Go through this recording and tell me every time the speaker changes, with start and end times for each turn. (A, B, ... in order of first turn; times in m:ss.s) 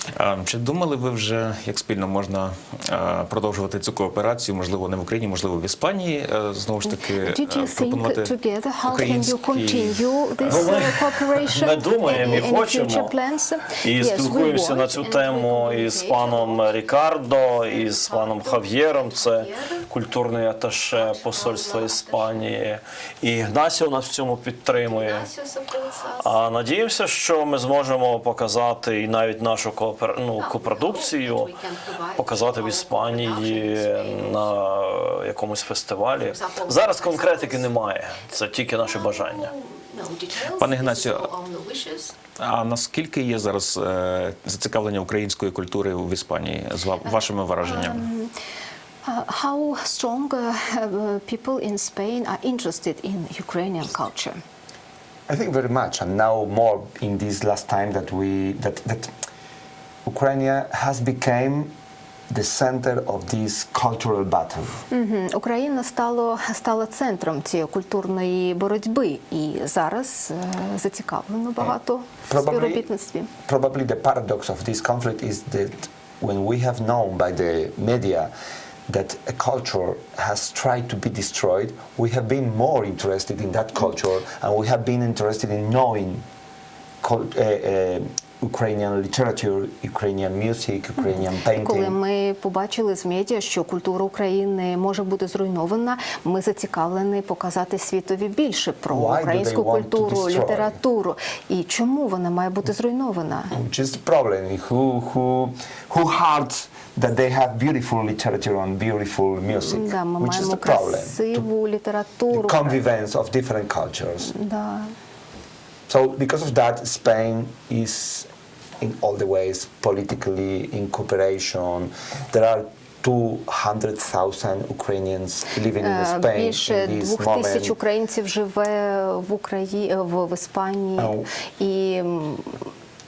0:00.1-0:10.8 A
0:06.9-0:16.9 B
0:10.5-0:13.1 C
0:13.8-0:25.3 C
0:17.4-0:19.9 B
0:20.9-0:22.3 B
0:24.7-0:26.4 B
0:26.2-0:31.5 C
0:30.4-0:34.5 B
0:32.2-0:39.5 C
0:36.3-0:37.7 B
0:38.8-0:42.2 B
0:40.6-0:41.3 A
0:42.4-0:48.1 A
0:47.0-0:48.3 B
0:49.0-0:54.4 B
0:55.3-0:59.1 D
1:00.1-1:01.7 D
1:02.3-1:04.8 D
1:04.9-1:13.3 B
1:12.3-1:12.9 D
1:13.4-1:18.3 D
1:18.9-1:26.2 D
1:27.0-1:32.0 D
1:31.5-1:43.6 B
1:38.9-1:40.8 D
1:43.5-1:51.5 D
1:49.6-1:52.8 B
1:52.3-1:54.3 D
1:54.3-1:55.0 B
1:55.9-1:58.3 D
1:58.8-2:07.8 D
2:05.8-2:12.7 B
2:11.0-2:11.3 D